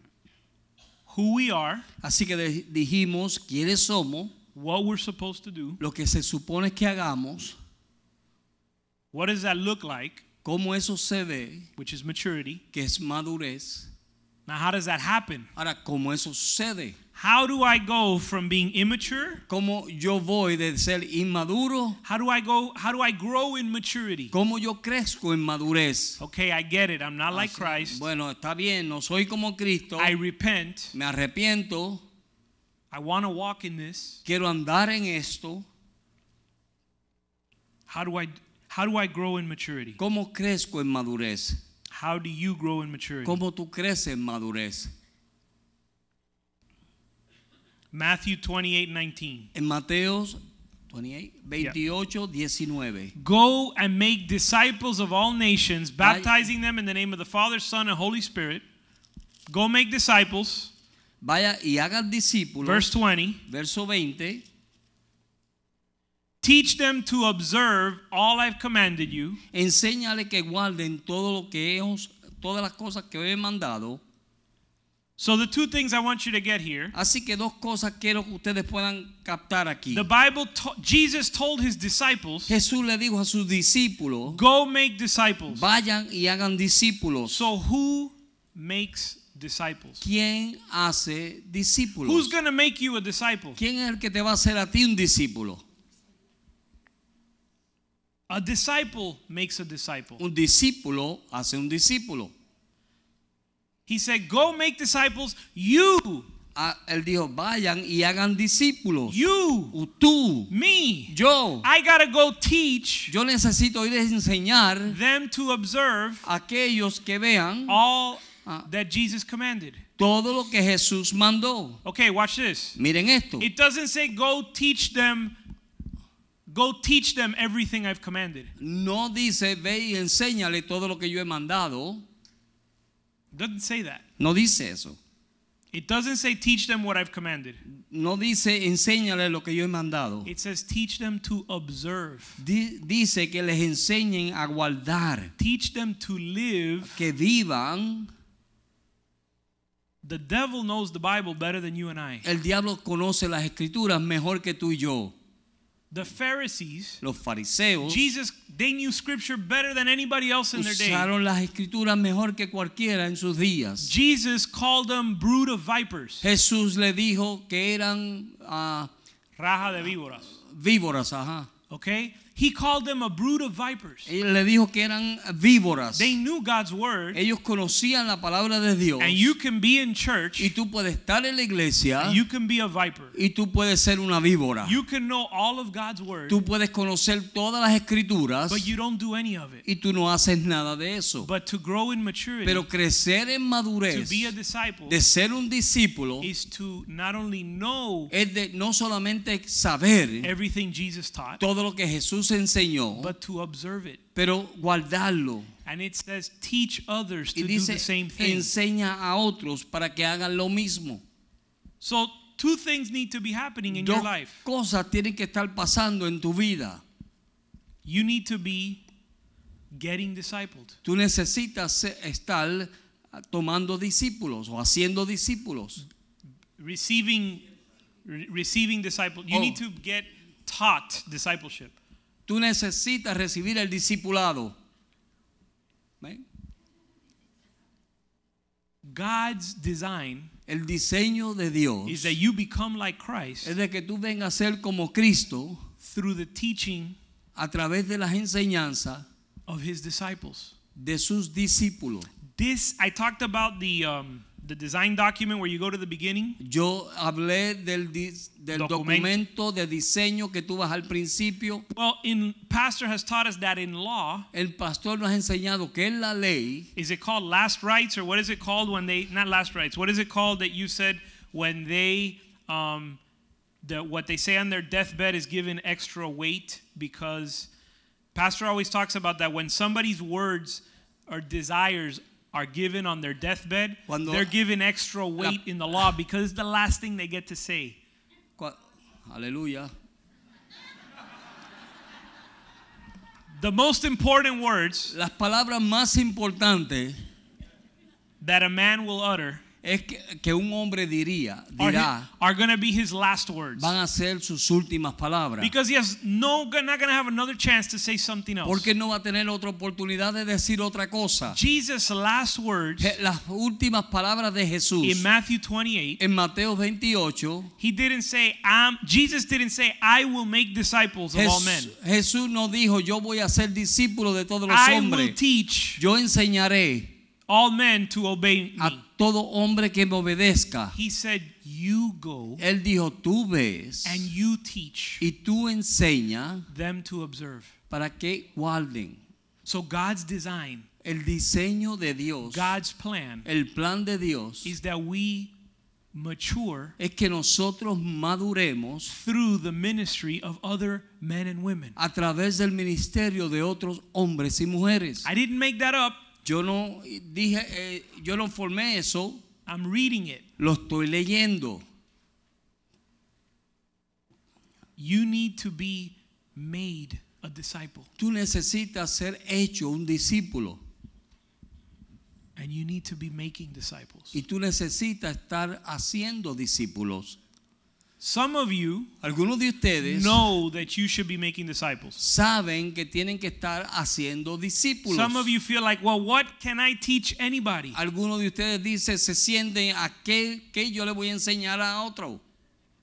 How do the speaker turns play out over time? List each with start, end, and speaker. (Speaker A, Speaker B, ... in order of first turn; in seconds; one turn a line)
Speaker A: 1.1-1.9
Speaker B: 2.0-4.3
Speaker A: 4.5-5.8
Speaker B: 5.8-7.6
Speaker A: 9.1-10.2
Speaker B: 10.4-11.7
Speaker A: 11.8-12.6
Speaker B: 12.7-13.9
Speaker A: 14.5-15.5
Speaker B: 15.6-17.0
Speaker A: 17.2-19.4
Speaker B: 19.5-22.0
Speaker A: 22.0-24.3
Speaker B: 24.3-26.2
Speaker A: 26.2-28.0
Speaker B: 27.3-30.2
Speaker A: 30.0-30.9
Speaker B: 30.9-32.0
Speaker A: 32.9-34.2
Speaker B: 34.2-35.7
Speaker A: 37.9-40.0
Speaker B: 40.0-41.6
Speaker A: 41.9-43.4
Speaker B: 43.2-44.9
Speaker A: 47.9-49.5
Speaker B: 49.5-53.1
Speaker A: 53.2-58.6
Speaker B: 56.0-56.4
Speaker A: 59.5-60.7
Speaker B: 61.2-62.9
Speaker A: 62.6-63.4
Speaker B: 63.5-64.4
Speaker A: 66.4-69.4
Speaker B: 69.5-74.0
Speaker A: 75.2-76.9
Speaker B: 76.9-80.1
Speaker A: 79.9-82.5
Speaker B: 82.5-84.4
Speaker A: 84.3-85.7
Speaker B: 85.5-87.5
Speaker A: 87.3-90.0
Speaker B: 90.0-92.3
Speaker A: 92.0-93.6
Speaker B: 93.6-95.6
Speaker A: 98.3-100.2
Speaker B: 100.2-102.3
Speaker A: 103.9-106.3
Speaker B: 106.5-110.5
Speaker A: 109.1-109.8
Speaker A: 110.5-113.1
Speaker B: 111.1-111.7
Speaker B: 113.1-115.0
Speaker A: 114.9-116.3
Speaker B: 116.2-117.8
Speaker A: 117.7-119.8
Speaker B: 120.0-121.8
Speaker A: 121.8-122.8
Speaker B: 122.8-123.5
Speaker A: 123.4-125.3
Speaker A: 126.5-128.5
Speaker B: 128.6-132.0
Speaker A: 133.3-134.0
Speaker B: 134.2-135.0
Speaker A: 135.7-137.6
Speaker B: 137.7-140.3
Speaker A: 140.2-142.4
Speaker B: 142.4-145.3
Speaker A: 145.4-147.0
Speaker B: 146.8-148.1
Speaker A: 150.0-152.2
Speaker B: 152.2-155.1
Speaker A: 155.9-157.0
Speaker B: 157.0-158.0
Speaker A: 157.8-161.1
Speaker B: 160.6-163.9
Speaker A: 163.8-166.2
Speaker B: 166.2-168.9
Speaker A: 169.4-170.3
Speaker B: 170.4-171.5
Speaker A: 171.7-174.1
Speaker B: 174.1-176.2
Speaker A: 175.9-177.2
Speaker B: 177.1-179.3
Speaker A: 179.0-180.5
Speaker B: 180.4-182.2
Speaker A: 182.0-183.2
Speaker B: 183.1-184.8
Speaker A: 184.7-186.4
Speaker B: 186.3-188.7
Speaker A: 188.5-189.6
Speaker B: 189.7-191.3
Speaker A: 191.2-192.7
Speaker B: 192.4-194.3
Speaker A: 193.9-195.0
Speaker B: 194.9-196.3
Speaker A: 196.2-198.1
Speaker B: 198.1-200.3
Speaker A: 200.2-201.4
Speaker B: 201.4-203.1
Speaker A: 203.0-204.0
Speaker B: 204.2-205.5
Speaker A: 205.7-208.5
Speaker B: 207.3-211.0
Speaker A: 211.8-214.4
Speaker B: 213.7-216.8
Speaker A: 217.8-218.8
Speaker A: 219.7-220.8
Speaker B: 220.8-225.8
Speaker A: 226.6-227.4
Speaker A: 228.1-231.8
Speaker B: 229.3-229.6
Speaker B: 232.3-234.6
Speaker A: 238.8-240.3
Speaker B: 240.5-242.2
Speaker A: 241.9-243.6
Speaker B: 243.4-245.6
Speaker A: 245.8-247.0
Speaker B: 247.4-249.1
Speaker A: 249.5-250.5
Speaker B: 250.8-252.1
Speaker A: 252.4-256.4
Speaker B: 256.4-261.6
Speaker A: 258.5-259.1
Speaker A: 261.7-264.3
Speaker B: 264.3-266.7
Speaker A: 266.8-273.0
Speaker A: 273.6-277.5
Speaker A: 278.1-287.8
Speaker B: 283.9-284.3
Speaker B: 288.4-289.7
Speaker A: 293.3-294.9
Speaker B: 294.9-297.0
Speaker A: 298.2-299.4
Speaker B: 299.6-302.1
Speaker A: 301.6-303.7
Speaker B: 303.6-305.5
Speaker A: 305.4-308.7
Speaker B: 308.4-311.4
Speaker A: 311.3-312.9
Speaker B: 312.8-315.1
Speaker A: 314.8-316.0
Speaker B: 316.0-317.5
Speaker A: 317.6-321.7
Speaker B: 321.1-325.2
Speaker A: 324.5-325.8
Speaker B: 325.8-326.9
Speaker A: 327.3-328.8
Speaker B: 328.6-330.8
Speaker A: 330.7-332.4
Speaker B: 332.4-334.1
Speaker A: 333.8-335.0
Speaker B: 335.0-336.5
Speaker A: 336.5-337.5
Speaker B: 337.7-339.0
Speaker A: 339.5-340.7
Speaker B: 340.8-342.5
Speaker A: 342.2-343.3
Speaker B: 343.2-344.5
Speaker A: 344.4-345.3
Speaker A: 345.9-346.8
Speaker B: 346.8-348.9
Speaker A: 348.9-351.8
Speaker B: 351.8-355.1
Speaker A: 355.0-356.0
Speaker B: 356.2-359.2
Speaker A: 359.5-360.2
Speaker B: 360.4-361.6
Speaker A: 364.8-367.9
Speaker B: 368.0-370.6
Speaker A: 372.4-374.2
Speaker B: 374.1-377.2
Speaker A: 378.0-378.9
Speaker B: 379.0-380.3
Speaker A: 379.8-382.0
Speaker B: 382.0-385.3
Speaker A: 384.9-387.8
Speaker B: 387.7-392.2